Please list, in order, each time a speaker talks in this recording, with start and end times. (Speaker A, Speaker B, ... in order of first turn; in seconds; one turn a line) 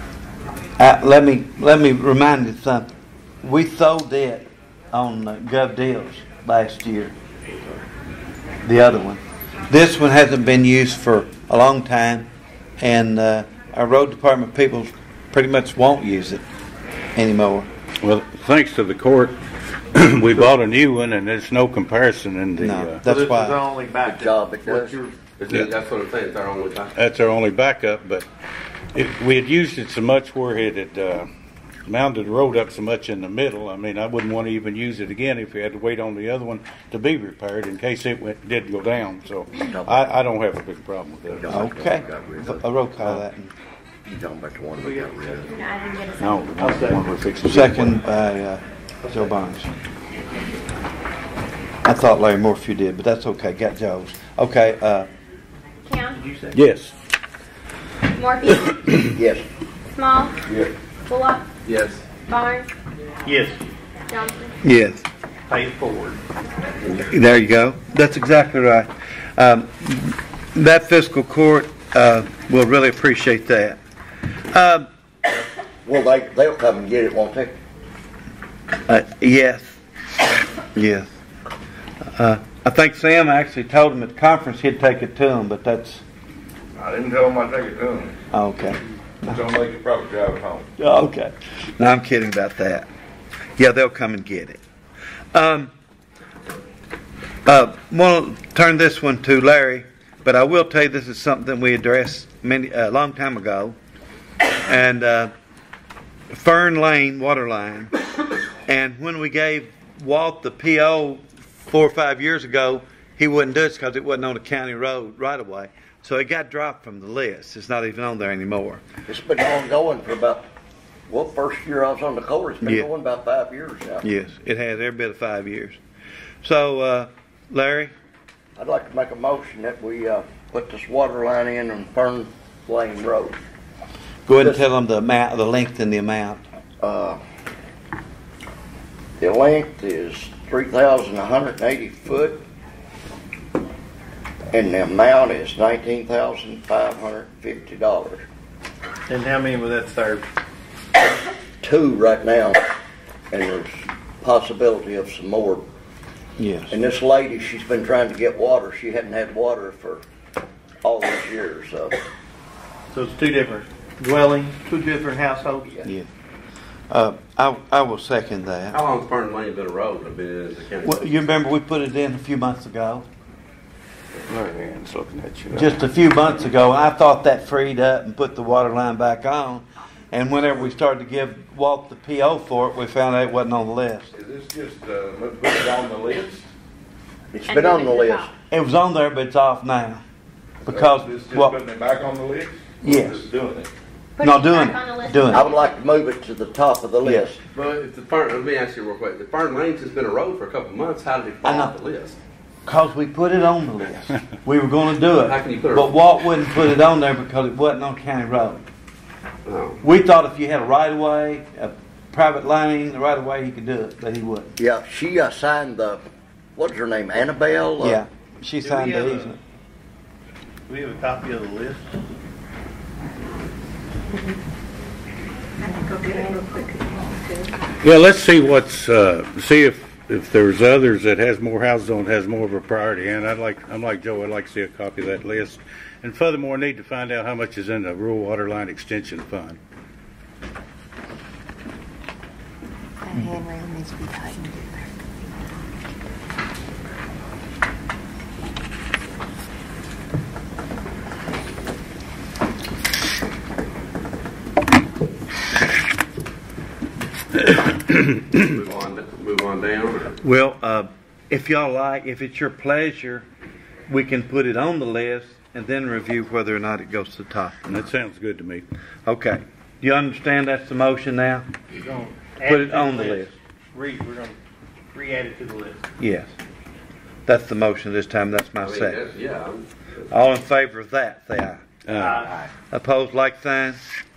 Speaker A: 0.8-2.9
Speaker A: 3.4-7.1
Speaker A: 8.6-12.3
Speaker A: 12.8-16.4
Speaker A: 17.1-17.7
Speaker B: 18.0-19.4
Speaker B: 19.9-23.0
Speaker A: 22.6-23.6
Speaker C: 23.0-25.2
Speaker D: 24.0-25.0
Speaker E: 25.4-26.9
Speaker B: 25.5-25.7
Speaker B: 26.9-28.3
Speaker B: 28.9-31.3
Speaker B: 31.9-41.6
Speaker D: 39.7-40.1
Speaker D: 41.3-42.8
Speaker A: 41.5-43.5
Speaker D: 44.0-45.6
Speaker C: 44.8-45.3
Speaker F: 45.5-46.5
Speaker B: 46.2-48.0
Speaker C: 46.6-47.1
Speaker A: 47.5-49.7
Speaker C: 49.0-49.3
Speaker A: 51.8-55.1
Speaker F: 55.8-56.2
Speaker C: 56.1-56.6
Speaker B: 56.5-56.9
Speaker F: 58.1-59.1
Speaker D: 59.1-59.4
Speaker F: 59.9-60.3
Speaker G: 60.5-60.7
Speaker F: 61.1-61.4
Speaker E: 61.6-62.0
Speaker F: 62.3-62.7
Speaker C: 63.2-63.6
Speaker F: 64.1-64.5
Speaker A: 64.6-65.0
Speaker C: 65.5-66.2
Speaker A: 67.1-73.8
Speaker A: 74.5-74.9
Speaker D: 75.8-77.6
Speaker A: 78.9-79.7
Speaker A: 80.7-81.1
Speaker A: 82.1-86.0
Speaker G: 86.8-88.2
Speaker A: 88.3-89.4
Speaker G: 89.2-90.7
Speaker A: 90.8-92.9
Speaker A: 93.6-94.6
Speaker A: 95.3-95.7
Speaker A: 97.5-103.8
Speaker A: 104.7-105.3
Speaker A: 106.3-107.9
Speaker A: 108.7-118.8
Speaker D: 119.1-120.5
Speaker D: 121.1-124.0
Speaker A: 122.6-122.9
Speaker A: 124.0-125.8
Speaker A: 126.4-127.9
Speaker D: 128.6-133.4
Speaker A: 134.3-136.4
Speaker D: 134.4-134.7
Speaker D: 136.8-137.2
Speaker D: 139.2-142.4
Speaker D: 144.5-148.2
Speaker C: 149.1-150.2
Speaker D: 151.6-152.6
Speaker D: 153.3-155.6
Speaker A: 156.4-156.7
Speaker D: 156.7-160.0
Speaker D: 160.8-161.9
Speaker C: 162.9-165.8
Speaker A: 166.9-168.8
Speaker E: 168.7-171.1
Speaker A: 170.8-173.1
Speaker B: 174.3-175.9
Speaker A: 175.5-184.1
Speaker G: 184.1-186.4
Speaker D: 187.3-188.3
Speaker F: 187.4-188.3
Speaker A: 188.5-190.0
Speaker G: 190.7-193.7
Speaker A: 190.7-191.6
Speaker A: 192.8-193.3
Speaker F: 194.2-195.8
Speaker A: 194.2-195.5
Speaker D: 195.3-197.4
Speaker A: 197.0-197.3
Speaker E: 197.5-202.2
Speaker A: 201.4-201.7
Speaker A: 202.7-208.6
Speaker E: 205.1-205.9
Speaker E: 209.4-209.8
Speaker A: 209.8-214.5
Speaker D: 214.6-216.0
Speaker D: 216.6-218.0
Speaker A: 217.8-219.4
Speaker C: 218.6-219.3
Speaker C: 220.7-221.9
Speaker F: 224.1-224.4
Speaker F: 225.9-227.5
Speaker B: 227.8-239.6
Speaker F: 243.0-244.9
Speaker B: 257.9-258.4
Speaker E: 258.3-260.2
Speaker A: 260.2-263.2
Speaker A: 263.9-267.6
Speaker B: 267.6-268.6
Speaker A: 269.1-271.4
Speaker C: 271.8-274.4
Speaker A: 272.4-273.3
Speaker C: 274.9-275.8
Speaker A: 276.0-276.3
Speaker A: 277.2-279.1
Speaker E: 278.6-280.0
Speaker A: 280.1-281.6
Speaker B: 281.8-282.4
Speaker C: 282.0-282.4
Speaker A: 282.7-283.8